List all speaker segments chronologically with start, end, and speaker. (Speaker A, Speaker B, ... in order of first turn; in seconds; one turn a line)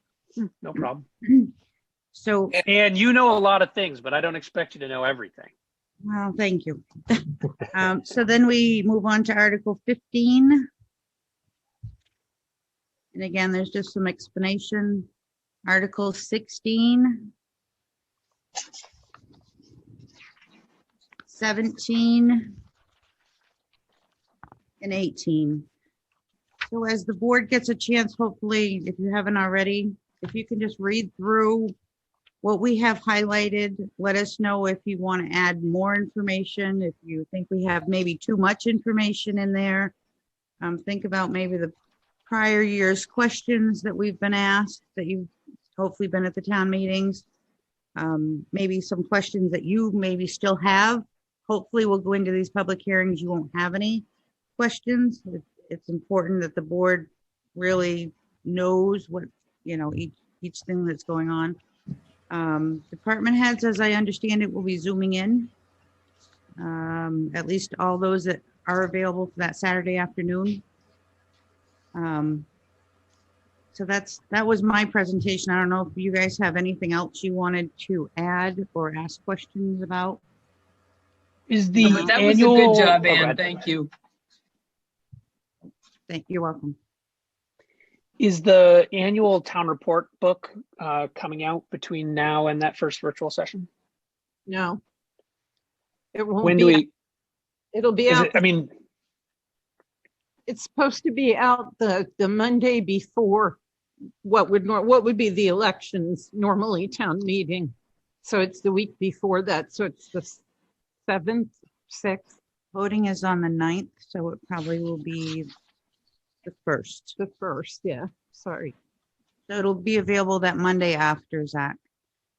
Speaker A: 0.4-1.0
Speaker B: 1.2-1.5
Speaker B: 2.1-2.6
Speaker A: 2.6-5.5
Speaker B: 6.0-10.7
Speaker B: 13.1-15.1
Speaker B: 15.7-17.3
Speaker B: 21.3-22.6
Speaker B: 24.8-25.6
Speaker B: 26.7-31.7
Speaker B: 32.4-39.9
Speaker B: 40.6-41.7
Speaker B: 42.3-47.2
Speaker B: 48.0-54.0
Speaker B: 54.6-61.5
Speaker B: 62.3-65.5
Speaker B: 66.6-70.6
Speaker B: 71.9-72.5
Speaker B: 73.7-80.2
Speaker A: 81.5-83.6
Speaker C: 81.8-83.9
Speaker B: 86.1-86.8
Speaker A: 88.2-93.7
Speaker D: 94.5-94.8
Speaker D: 96.1-96.9
Speaker A: 96.4-96.9
Speaker D: 97.7-98.4
Speaker A: 98.1-98.7
Speaker D: 100.5-103.6
Speaker D: 104.2-110.4
Speaker D: 111.0-112.3
Speaker B: 112.7-115.5
Speaker B: 116.4-117.2
Speaker D: 117.2-118.7
Speaker B: 119.5-121.8